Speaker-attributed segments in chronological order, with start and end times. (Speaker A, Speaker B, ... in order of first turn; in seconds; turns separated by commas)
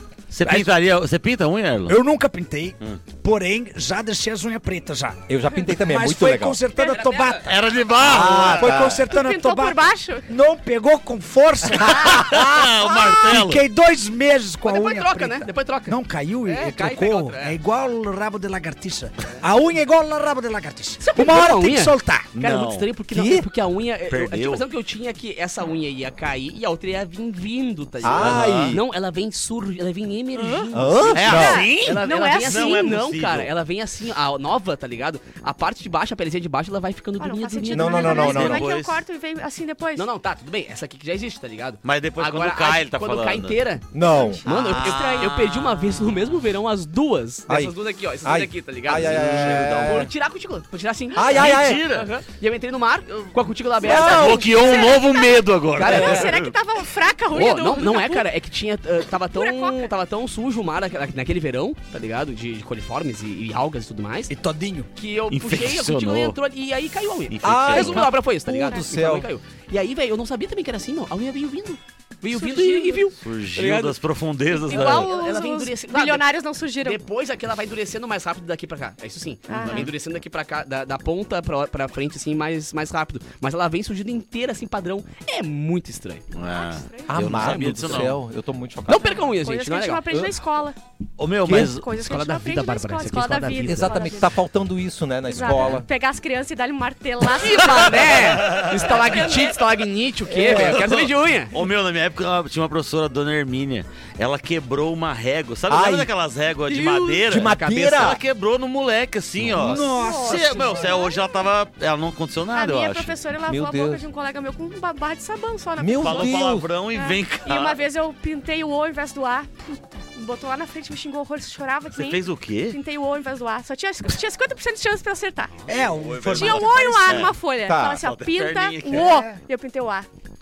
Speaker A: 0.3-2.0, Speaker B: 1.9-22.3, Speaker C: 5.3-6.6, Speaker D: 6.8-7.5, Speaker A: 7.5-8.8, Speaker C: 8.0-9.1, Speaker E: 9.1-10.3, Speaker A: 11.9-13.7, Speaker D: 14.6-17.6, Speaker D: 21.0-38.5, Speaker A: 22.3-22.9, Speaker C: 23.1-23.4, Speaker A: 24.1-24.6, Speaker C: 28.0-28.8, Speaker A: 28.1-28.8, Speaker E: 30.4-33.0, Speaker C: 30.7-31.7, Speaker A: 31.1-33.5, Speaker E: 37.2-40.1, Speaker C: 37.7-38.7, Speaker A: 38.0-39.0, Speaker D: 40.0-43.8, Speaker A: 41.8-43.6, Speaker C: 43.9-44.4, Speaker E: 44.4-45.4, Speaker D: 44.4-54.9, Speaker A: 44.4-45.5, Speaker C: 47.5-50.1, Speaker A: 48.9-49.7, Speaker C: 51.1-51.8, Speaker A: 51.3-52.1, Speaker E: 53.8-58.3, Speaker A: 53.8-56.5, Speaker D: 55.8-56.3, Speaker D: 57.3-64.3, Speaker E: 59.3-59.9, Speaker B: 64.3-64.9, Speaker D: 65.0-74.0, Speaker A: 65.3-66.3, Speaker A: 67.3-68.1, Speaker C: 67.4-69.3, Speaker E: 72.3-73.1, Speaker A: 73.2-75.1, Speaker D: 74.5-86.2, Speaker E: 74.6-77.0, Speaker E: 79.5-79.9, Speaker A: 79.5-79.9, Speaker A: 86.3-88.2, Speaker E: 86.5-87.4, Speaker C: 87.1-89.2, Speaker D: 87.2-88.2, Speaker D: 88.9-90.0, Speaker E: 89.0-90.8, Speaker A: 91.2-91.8, Speaker C: 91.4-91.7, Speaker E: 91.5-94.3, Speaker D: 91.5-94.0, Speaker C: 93.6-95.8, Speaker E: 95.3-99.6, Speaker A: 95.4-95.8, Speaker D: 97.3-101.5, Speaker A: 98.2-98.8, Speaker C: 100.3-100.9, Speaker A: 100.5-113.1, Speaker C: 105.7-106.1, Speaker D: 106.7-108.1, Speaker C: 107.3-108.2, Speaker C: 109.4-109.7, Speaker B: 109.5-111.0, Speaker E: 109.7-111.5, Speaker E: 112.5-125.5, Speaker C: 113.5-114.0, Speaker C: 115.8-116.7, Speaker A: 116.0-117.8, Speaker A: 121.9-122.8, Speaker B: 125.7-127.3, Speaker A: 125.7-129.1, Speaker E: 126.3-130.1, Speaker C: 127.7-128.1, Speaker B: 128.9-129.4